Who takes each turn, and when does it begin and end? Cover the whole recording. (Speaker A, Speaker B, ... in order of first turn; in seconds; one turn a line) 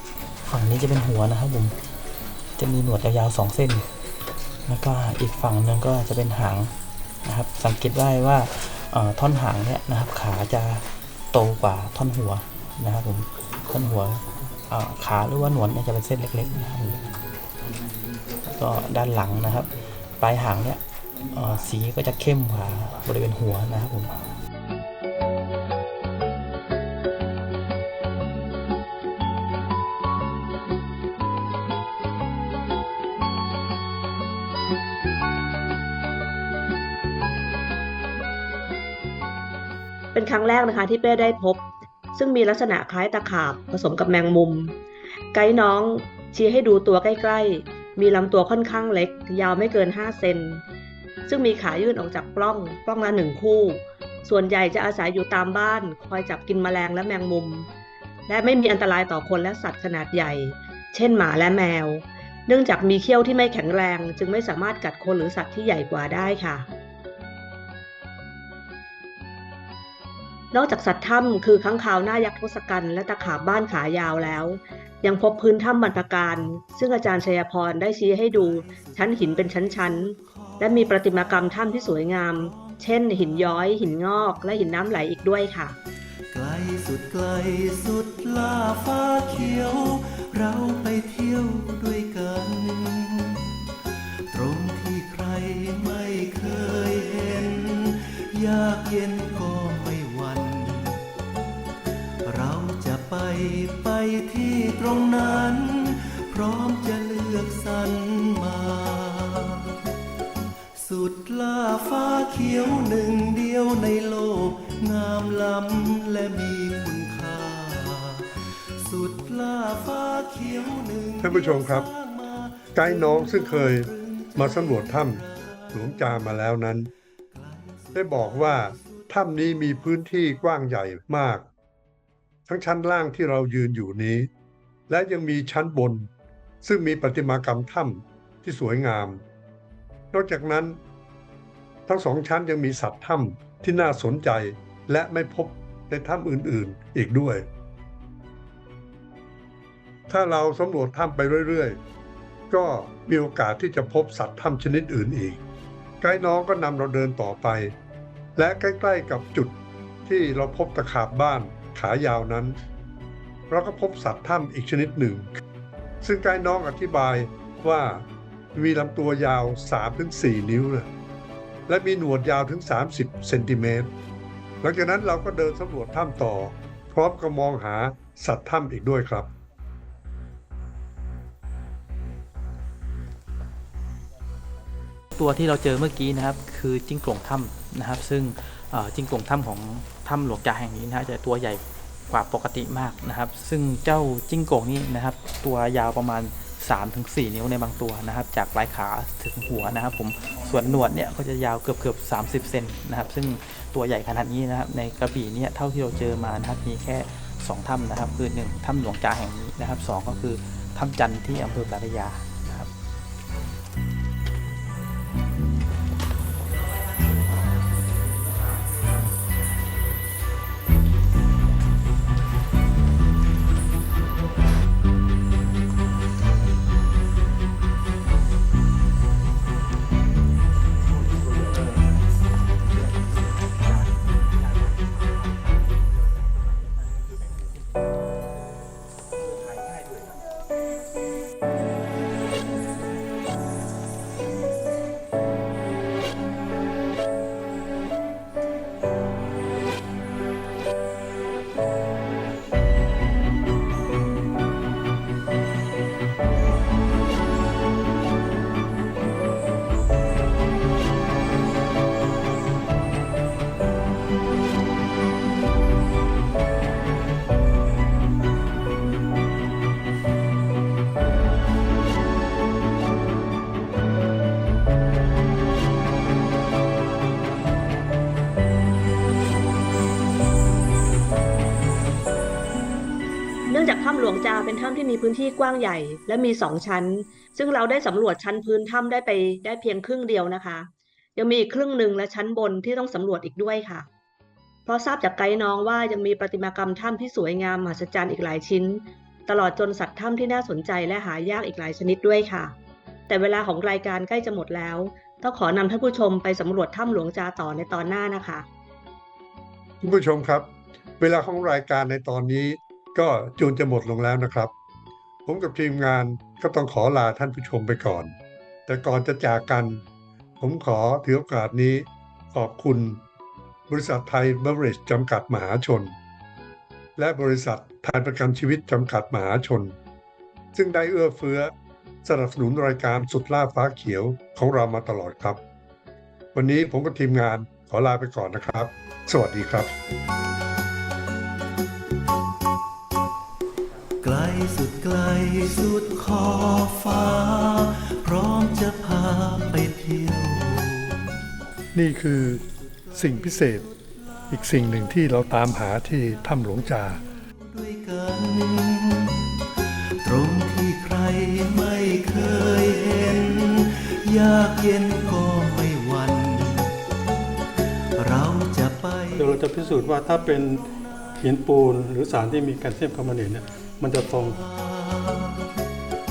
Speaker A: 0.5-1.7
Speaker A: 2.6-3.8
Speaker A: 4.7-6.7
Speaker A: 7.2-17.0
Speaker A: 18.5-24.2
Speaker B: 40.1-44.7
Speaker B: 45.3-50.6
Speaker B: 51.2-57.7
Speaker B: 58.3-66.7
Speaker B: 70.5-85.8
Speaker C: 78.3-83.2
Speaker C: 86.3-93.6
Speaker C: 94.3-101.0
Speaker C: 102.2-109.8
Speaker C: 110.8-125.9
Speaker D: 121.2-121.9
Speaker D: 122.7-126.9
Speaker C: 127.3-130.4
Speaker D: 127.9-131.5
Speaker D: 132.5-134.3
Speaker D: 134.9-136.1
Speaker D: 136.6-139.2
Speaker D: 140.1-140.8
Speaker D: 141.9-147.5
Speaker D: 150.1-151.8
Speaker D: 152.5-155.4
Speaker D: 156.0-157.7
Speaker D: 158.3-162.6
Speaker D: 163.5-165.3
Speaker D: 166.0-170.9
Speaker D: 171.7-173.9
Speaker D: 174.6-179.3
Speaker A: 185.2-212.7
Speaker B: 283.5-293.9
Speaker B: 294.6-302.5
Speaker B: 303.1-308.5
Speaker D: 309.8-314.5
Speaker D: 315.2-318.1
Speaker D: 318.7-319.8
Speaker D: 320.4-323.0
Speaker D: 323.7-325.9
Speaker D: 327.0-329.7
Speaker D: 330.5-335.4
Speaker D: 336.3-339.7
Speaker C: 344.0-351.1
Speaker D: 351.7-352.4
Speaker C: 352.2-354.5
Speaker D: 352.9-353.6
Speaker D: 354.3-357.0
Speaker C: 357.4-366.8
Speaker C: 368.0-369.4
Speaker E: 369.1-370.7
Speaker E: 371.2-374.4
Speaker C: 374.3-375.5